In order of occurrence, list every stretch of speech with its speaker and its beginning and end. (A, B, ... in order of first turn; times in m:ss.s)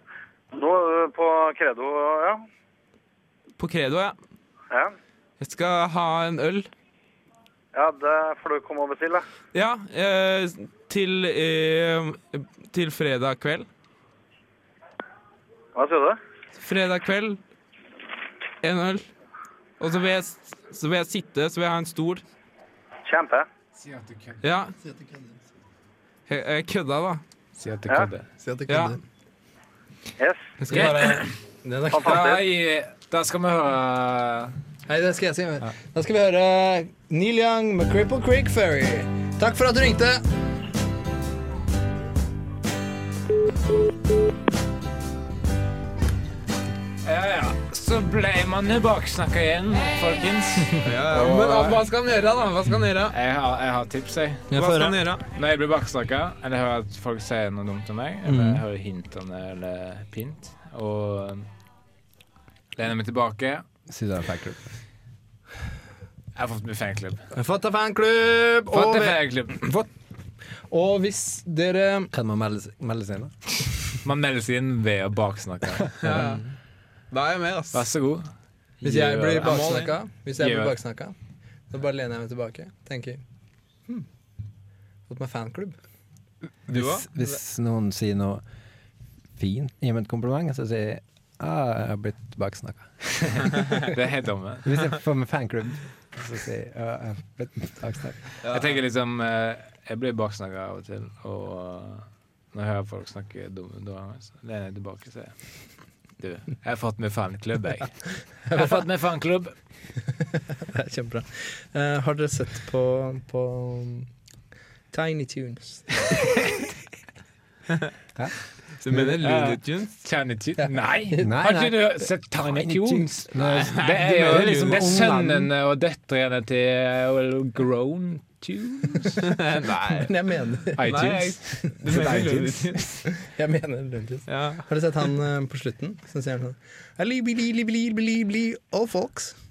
0:00.5-0:02.4 A
0:03.6-0:04.2 B
0:04.7-0:05.0 A
0:05.4-0:06.7 B
0:07.7-0:09.2 A
0:09.5-0:13.7 B
0:15.8-0:16.2 A
0:16.6-0:17.4 B
0:18.6-0:19.1 B
0:19.8-0:22.2 B
0:23.1-0:23.5 A
0:23.8-0:24.4 C
0:24.4-0:24.7 B
0:24.8-0:25.3 D
0:26.3-0:27.2 B
0:27.6-0:28.3 C
0:28.4-0:29.0 D
0:28.7-0:29.0 B
0:30.2-0:30.5 A
0:30.6-0:31.3 B
0:30.7-0:31.3 C
0:31.6-0:32.2 D
0:31.9-0:32.4 A
0:31.9-0:34.5 C
0:34.9-0:40.2 D
0:47.0-0:51.8 C
0:50.8-0:53.1 B
0:53.1-0:54.5 C
0:54.5-0:55.0 D
0:54.5-0:55.2 B
0:55.3-1:01.5 C
0:58.3-0:58.6 D
1:02.8-1:03.6 C
1:03.9-1:04.7 E
1:06.4-1:07.2 C
1:07.4-1:09.9 D
1:08.7-1:09.6 C
1:10.7-1:12.1 D
1:12.1-1:13.3 E
1:14.0-1:16.2 C
1:16.0-1:16.4 B
1:16.1-1:16.4 E
1:17.1-1:17.9 B
1:17.7-1:18.3 C
1:18.8-1:20.8 C
1:18.8-1:21.2 D
1:19.4-1:19.9 B
1:21.7-1:23.2 D
1:25.1-1:25.8 D
1:26.7-1:28.4 E
1:26.7-1:27.2 B
1:29.4-1:33.8 E
1:33.9-1:34.8 C
1:34.6-1:38.2 E
1:38.4-1:38.8 B
1:38.4-1:45.4 C
1:46.2-1:49.5 C
1:48.5-1:48.8 D
1:50.6-1:54.1 D
1:54.9-1:56.6 D
1:58.8-1:59.9 B
1:59.2-2:09.3 C
2:01.2-2:05.5 E
2:03.6-2:05.0 B
2:09.2-2:10.1 B
2:10.0-2:11.0 D
2:10.8-2:12.6 C
2:10.9-2:13.0 B
2:13.2-2:19.4 D
2:14.3-2:14.6 B